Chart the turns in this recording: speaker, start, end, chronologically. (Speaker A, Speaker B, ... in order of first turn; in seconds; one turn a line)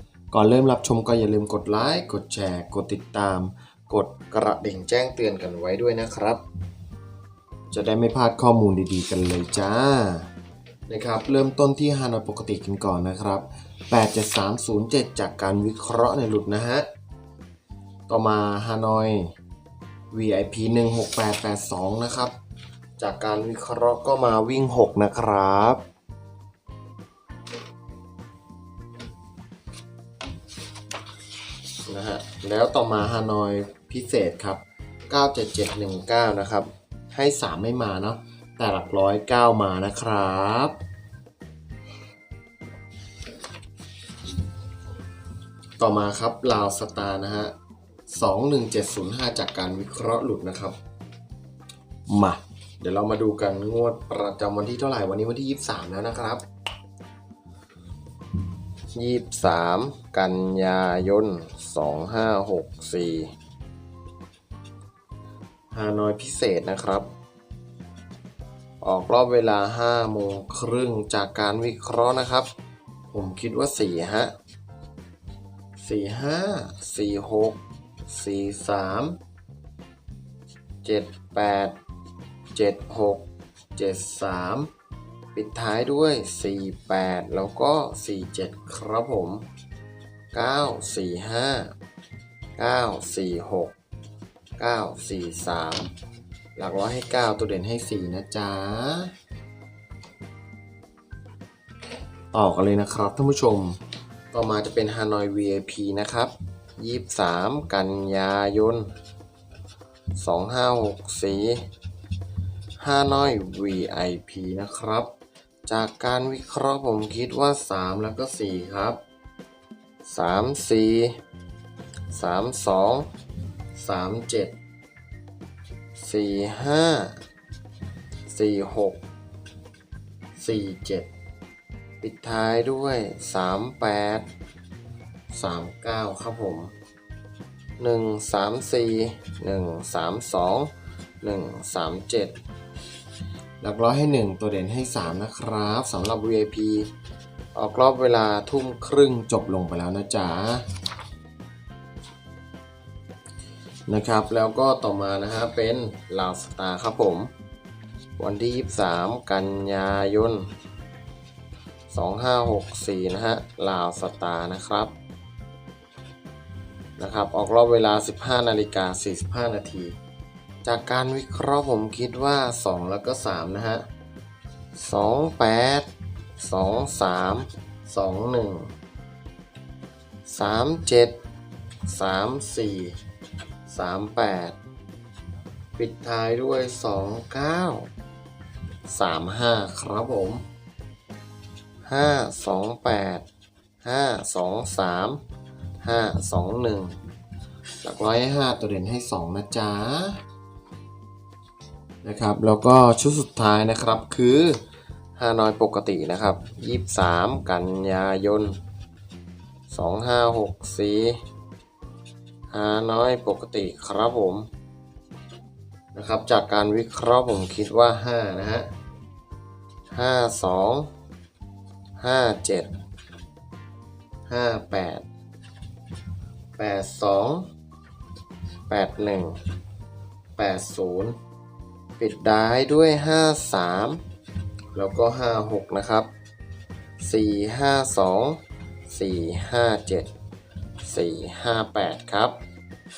Speaker A: 0.3-6.4
Speaker A: 7.7-10.3
Speaker A: 10.9-16.9
Speaker A: 18.1-19.3
Speaker A: 20.1-22.3
Speaker A: 23.0-25.8
Speaker A: 31.9-40.8
Speaker A: 45.8-47.5
Speaker A: 48.1-50.8
Speaker A: 52.1-56.4
Speaker A: 58.9-63.3
Speaker A: 65.7-67.1
Speaker A: 68.8-72.5
Speaker A: 73.1-74.3
Speaker A: 75.8-79.2
Speaker A: 80.8-81.8
Speaker A: 82.5-84.7
Speaker A: 85.3-89.5
Speaker A: 90.3-91.7
Speaker A: 92.6-93.7
Speaker A: 94.6-95.9
Speaker A: 96.5-99.1
Speaker A: 102.3-103.8
Speaker A: 104.3-108.9
Speaker A: 110.2-111.7
Speaker A: 112.8-115.1
Speaker A: 115.7-119.0
Speaker A: 120.0-121.2
Speaker A: 122.1-123.1
Speaker A: 123.7-124.5
Speaker A: 126.0-127.2
Speaker A: 128.3-129.0
Speaker A: 130.3-131.1
Speaker A: 132.0-134.3
Speaker A: 135.3-136.7
Speaker A: 137.8-142.4
Speaker A: 143.6-146.9
Speaker A: 147.5-150.6
Speaker A: 153.9-157.3
Speaker A: 158.2-160.5
Speaker A: 161.9-164.9
Speaker A: 167.0-169.9
Speaker A: 170.6-173.8
Speaker A: 174.7-178.7
Speaker A: 180.3-181.2
Speaker A: 181.8-183.0
Speaker A: 183.7-184.6
Speaker A: 185.8-187.9
Speaker A: 188.9-190.4
Speaker A: 191.8-193.2
Speaker A: 193.8-195.2
Speaker A: 195.8-197.0
Speaker A: 197.8-200.2
Speaker A: 202.0-204.6
Speaker A: 205.2-208.6
Speaker A: 209.7-211.2
Speaker A: 212.5-214.5
Speaker A: 215.9-218.7
Speaker A: 219.9-220.9
Speaker A: 222.0-222.8
Speaker A: 224.3-225.0
Speaker A: 226.6-227.5
Speaker A: 228.7-229.4
Speaker A: 230.4-231.2
Speaker A: 232.0-234.0
Speaker A: 234.7-236.1
Speaker A: 237.0-240.1
Speaker A: 240.8-242.4